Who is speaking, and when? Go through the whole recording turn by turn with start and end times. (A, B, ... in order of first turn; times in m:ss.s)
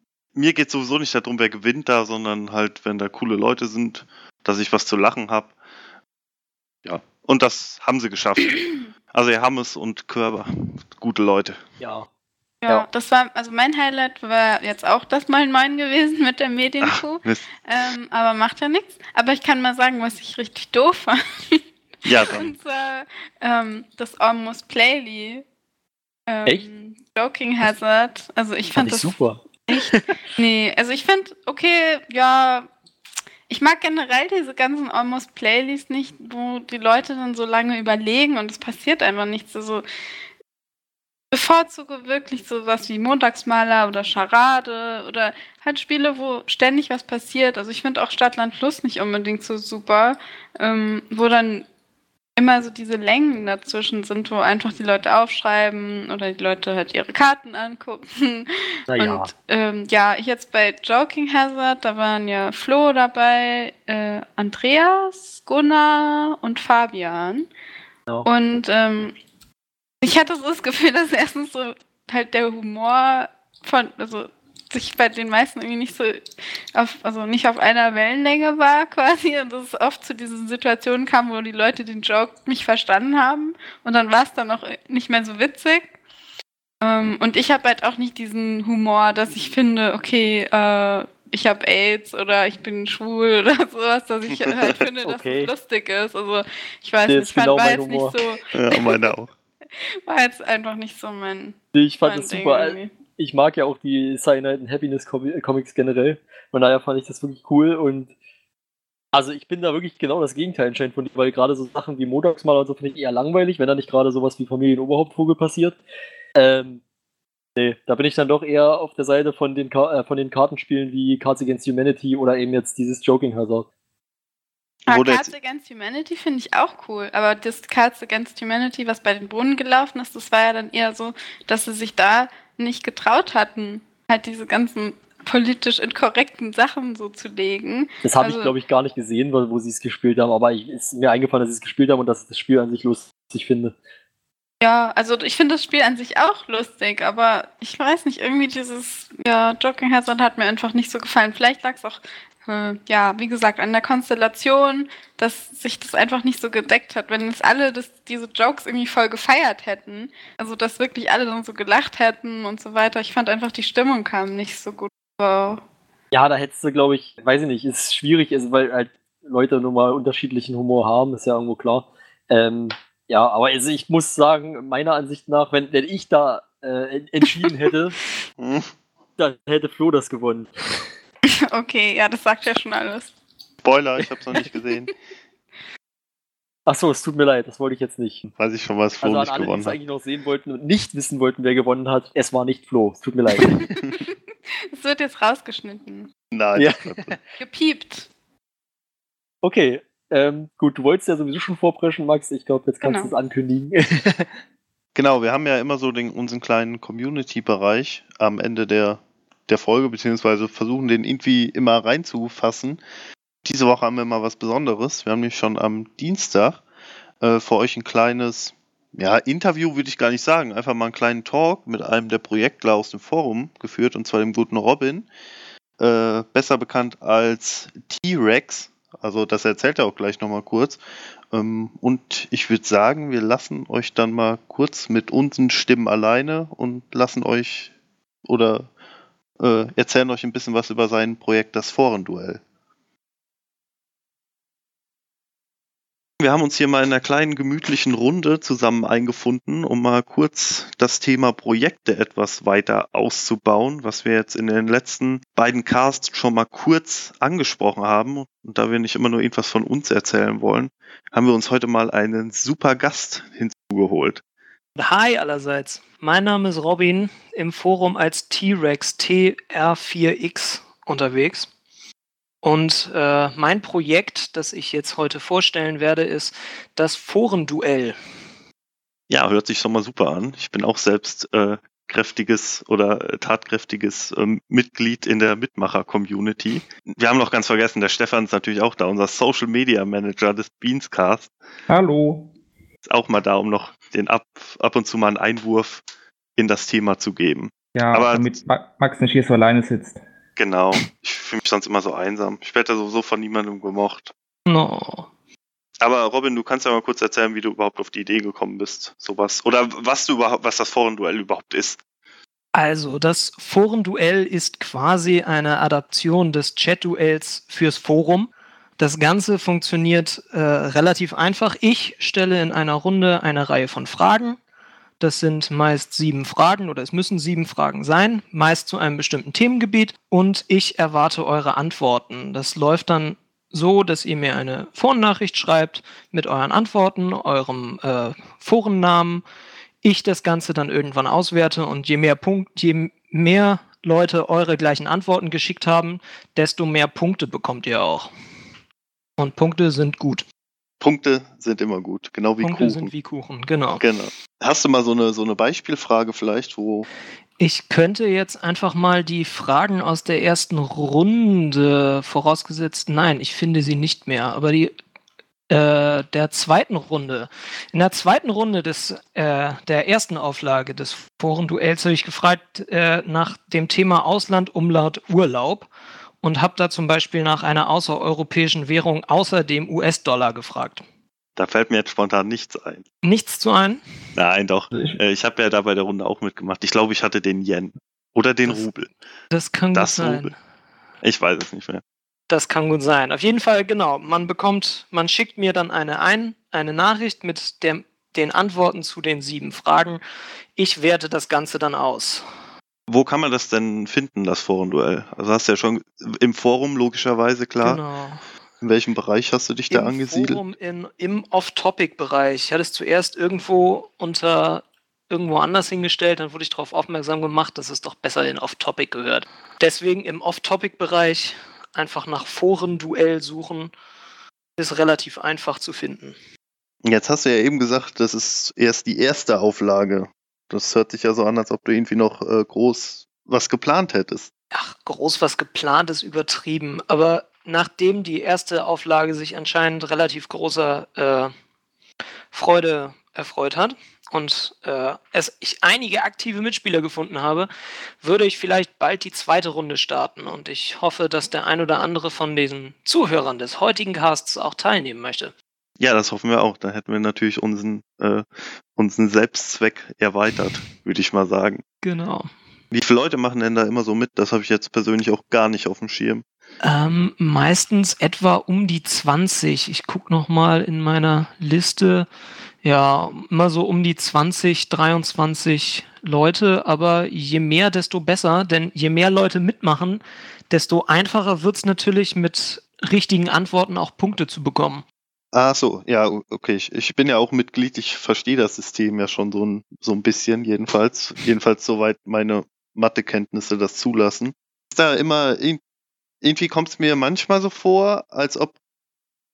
0:00.4-0:05.5 A
0:06.8-0:11.6 A
0:11.8-0:12.1 B
0:12.6-0:21.6 C
0:16.8-0:17.5 A
0:22.0-0:22.5 A
0:22.2-0:25.4 C
0:26.3-0:29.2 C
0:28.7-0:30.2 B
0:29.7-0:32.7 C
0:33.5-0:39.8 C
0:41.3-0:51.7 C
0:52.4-1:07.5 C
0:58.9-0:59.3 B
1:08.2-1:09.2 C
1:10.0-1:26.0 C
1:26.8-1:39.0 C
1:35.0-1:35.5 B
1:37.1-1:38.2 B
1:38.5-1:39.3 A
1:39.8-1:42.9 C
1:41.8-1:48.1 B
1:49.1-1:55.8 B
1:56.4-1:56.8 B
1:57.6-2:03.7 B
2:04.9-2:05.3 A
2:04.9-2:18.5 C
2:18.0-2:23.8 B
2:24.6-2:45.6 C
2:46.1-2:58.0 B
2:58.4-2:58.7 A
2:59.2-3:00.8 B
3:01.2-3:03.1 C
3:03.6-3:04.9 A
3:06.7-3:08.2 B
3:08.3-3:09.8 A
3:09.0-3:13.7 B
3:14.7-3:16.1 C
3:16.3-3:17.2 A
3:16.6-3:17.0 B
3:17.4-3:18.1 C
3:19.4-3:24.3 B
3:22.8-3:23.1 C
3:25.0-3:32.8 A
3:33.4-3:36.6 A
3:37.2-3:45.1 A
3:45.8-3:50.8 A
3:51.3-3:57.7 A
3:58.2-3:58.7 A
3:59.4-4:02.4 A
4:06.2-4:24.2 A
4:24.8-4:31.5 D
4:32.4-4:38.0 D
4:39.1-4:51.3 A
4:51.7-4:52.3 E
4:52.9-4:55.8 A
4:56.4-4:58.4 A
4:57.8-5:00.0 E
5:00.4-5:04.1 A
5:04.5-5:05.1 D
5:05.8-5:11.8 A
5:12.5-5:24.4 D
5:25.0-5:39.2 D
5:39.8-5:48.1 D
5:49.2-5:50.2 D
5:50.8-5:52.9 A
5:52.4-5:53.8 D
5:53.8-5:56.9 A
5:57.4-6:04.8 D
6:05.5-6:15.7 D
6:16.2-6:20.8 D
6:21.4-6:22.8 A
6:23.0-6:23.8 D
6:24.2-6:28.9 A
6:29.3-6:30.3 D
6:29.7-6:30.3 A
6:31.0-6:31.8 A
6:32.3-6:40.0 D
6:40.6-6:42.2 D
6:42.9-6:47.8 A
6:47.6-6:48.2 D
6:48.6-6:50.4 A
6:49.7-7:03.7 D
7:04.6-7:06.2 D
7:06.8-7:14.3 A
7:14.5-7:21.3 D
7:22.3-7:35.3 D
7:35.8-7:41.6 A
7:41.8-7:42.3 D
7:42.7-7:46.2 A
7:46.6-7:52.1 D
7:52.6-8:04.8 D
8:05.3-8:15.6 A
8:16.2-8:18.6 A